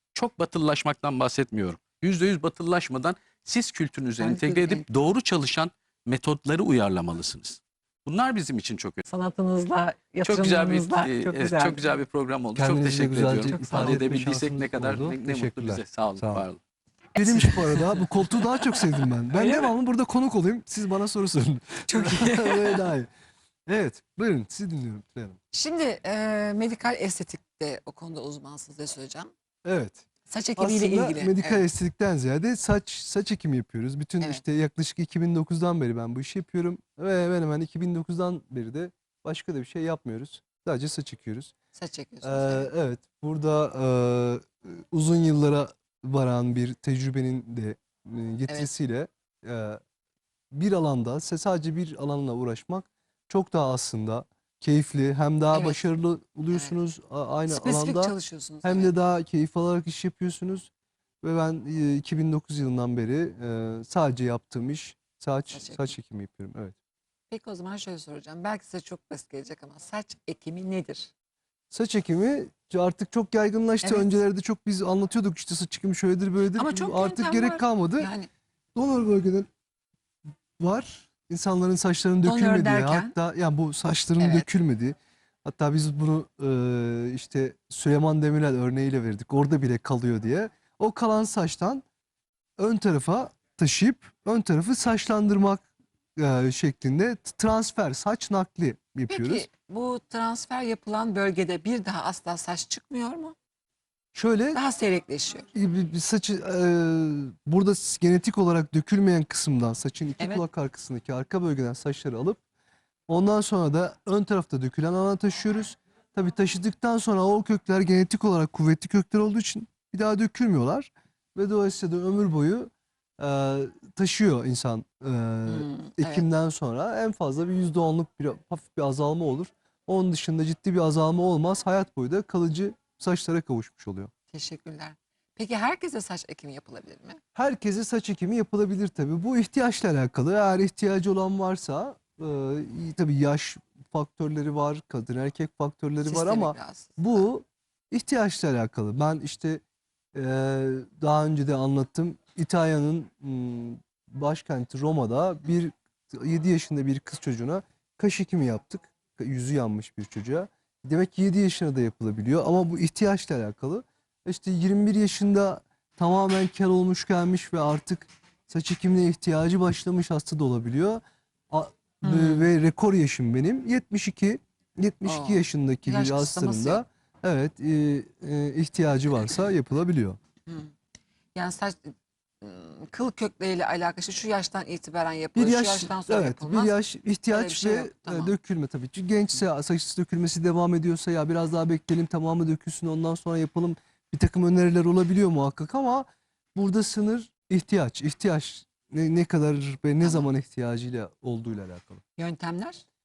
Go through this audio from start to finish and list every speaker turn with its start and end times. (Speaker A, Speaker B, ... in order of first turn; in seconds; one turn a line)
Speaker A: 0.1-9.0
Speaker B: 4.2-4.9
Speaker B: 9.1-11.9
Speaker A: 10.2-16.6
Speaker C: 12.6-16.5
Speaker B: 13.5-14.0
Speaker B: 17.1-18.8
Speaker C: 17.2-23.1
Speaker B: 19.3-19.7
Speaker B: 21.9-22.9
Speaker C: 23.7-25.4
Speaker B: 25.5-29.3
Speaker C: 29.6-30.0
Speaker B: 30.3-31.6
Speaker C: 30.6-41.5
Speaker B: 41.8-42.7
Speaker C: 42.2-49.8
Speaker C: 50.5-60.7
Speaker B: 55.5-55.9
Speaker B: 57.5-58.9
Speaker C: 61.2-66.8
Speaker B: 65.5-66.0
Speaker B: 67.3-71.1
Speaker C: 71.7-78.1
Speaker B: 76.6-78.3
Speaker C: 78.8-79.5
Speaker C: 80.6-91.8
Speaker B: 82.2-83.1
Speaker B: 84.2-84.5
Speaker C: 92.6-95.7
Speaker C: 96.2-99.5
Speaker B: 99.1-103.3
Speaker C: 104.1-104.6
Speaker B: 104.5-105.5
Speaker C: 105.5-112.4
Speaker C: 113.1-134.1
Speaker B: 125.5-126.3
Speaker B: 134.3-137.2
Speaker C: 137.3-149.6
Speaker B: 146.0-147.2
Speaker C: 150.1-180.2
Speaker B: 172.0-172.5
Speaker B: 175.0-176.8
Speaker B: 181.3-186.8
Speaker C: 185.3-202.0
Speaker B: 187.3-188.4
Speaker B: 200.0-200.3
Speaker B: 202.2-202.8